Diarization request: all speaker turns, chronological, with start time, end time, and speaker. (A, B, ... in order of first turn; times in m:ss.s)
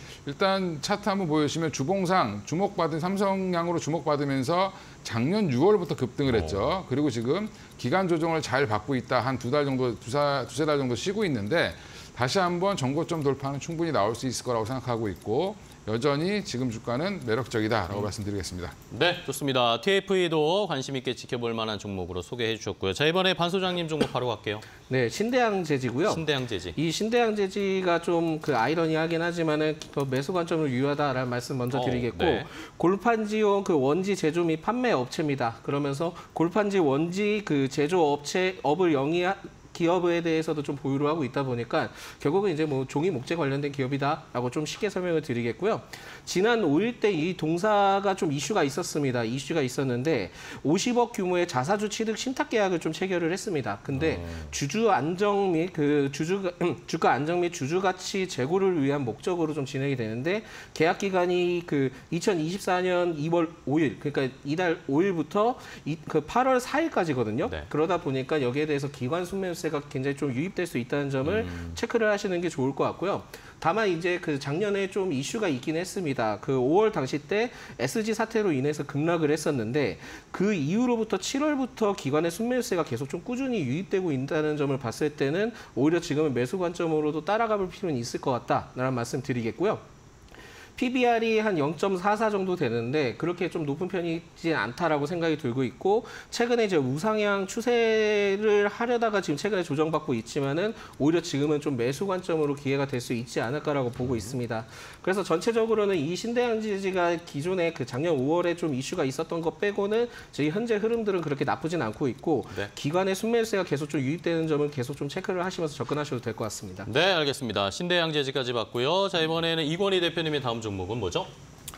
0:00.2-0:18.7 A
0:06.2-0:06.8 B
0:18.9-0:24.7 B
0:24.9-1:29.8 C
0:26.1-0:26.8 B
0:31.7-0:32.5 B
0:53.9-0:54.5 B
1:11.2-1:11.8 B
1:30.8-1:56.9 C
1:44.0-1:44.3 B
1:56.8-2:01.3 B